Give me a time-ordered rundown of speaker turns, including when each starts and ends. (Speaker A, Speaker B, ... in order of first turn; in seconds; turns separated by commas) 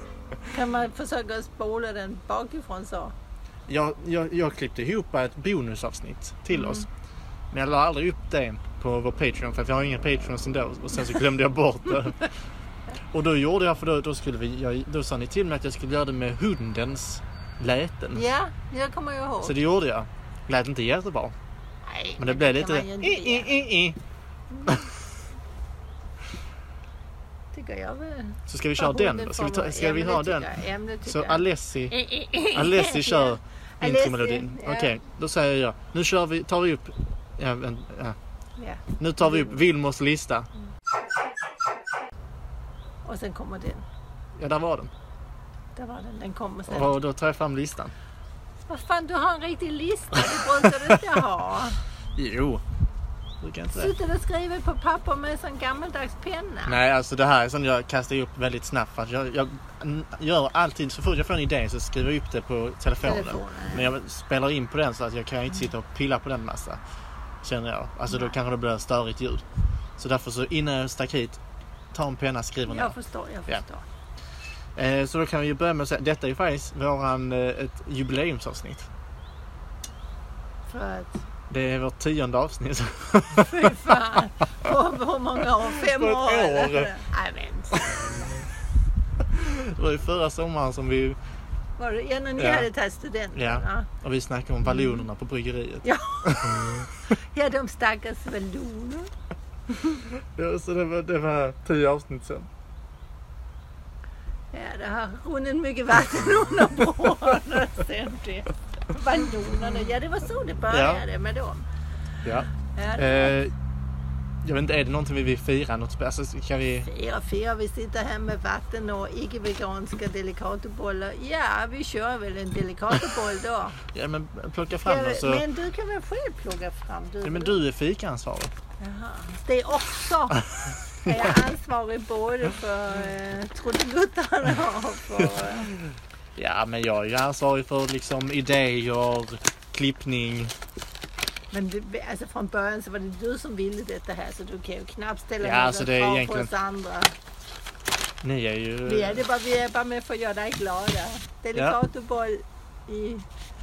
Speaker A: 0.5-3.1, Speaker B: 3.7-6.9, Speaker A: 6.5-6.8, Speaker B: 7.5-12.3, Speaker B: 13.1-18.2, Speaker A: 18.1-19.6, Speaker B: 19.4-21.3, Speaker A: 21.8-23.6, Speaker B: 22.2-24.0, Speaker A: 24.5-24.9, Speaker A: 27.5-34.9, Speaker B: 28.5-30.5, Speaker B: 31.0-38.1, Speaker A: 38.6-39.5, Speaker B: 39.0-40.5, Speaker A: 43.0-43.8, Speaker B: 44.4-44.9, Speaker A: 45.7-47.0, Speaker B: 46.7-47.9, Speaker A: 48.7-51.8, Speaker B: 52.1-52.6, Speaker B: 53.4-53.9, Speaker A: 53.7-56.8, Speaker B: 56.6-66.8, Speaker A: 63.0-63.9, Speaker B: 67.4-69.4, Speaker A: 68.1-68.3, Speaker B: 70.0-71.4, Speaker B: 71.9-73.0, Speaker A: 72.7-73.8, Speaker B: 74.8-78.9, Speaker A: 80.7-81.2, Speaker B: 81.5-84.2, Speaker A: 83.5-87.8, Speaker B: 85.6-86.9, Speaker B: 87.7-88.1, Speaker B: 89.3-91.2, Speaker A: 91.8-93.9, Speaker B: 92.4-92.7, Speaker B: 93.3-96.9, Speaker A: 94.7-95.0, Speaker A: 95.8-99.1, Speaker B: 100.0-102.5, Speaker A: 104.5-111.7, Speaker B: 110.7-111.0, Speaker B: 112.2-113.5, Speaker A: 112.6-113.4, Speaker B: 114.4-116.9, Speaker A: 116.8-123.8, Speaker B: 123.9-125.4, Speaker A: 124.8-127.6, Speaker B: 127.2-128.5, Speaker A: 128.8-130.4, Speaker A: 131.0-135.7, Speaker B: 136.3-140.5, Speaker A: 141.5-147.1, Speaker B: 145.4-146.5, Speaker B: 148.2-149.2, Speaker A: 148.8-153.3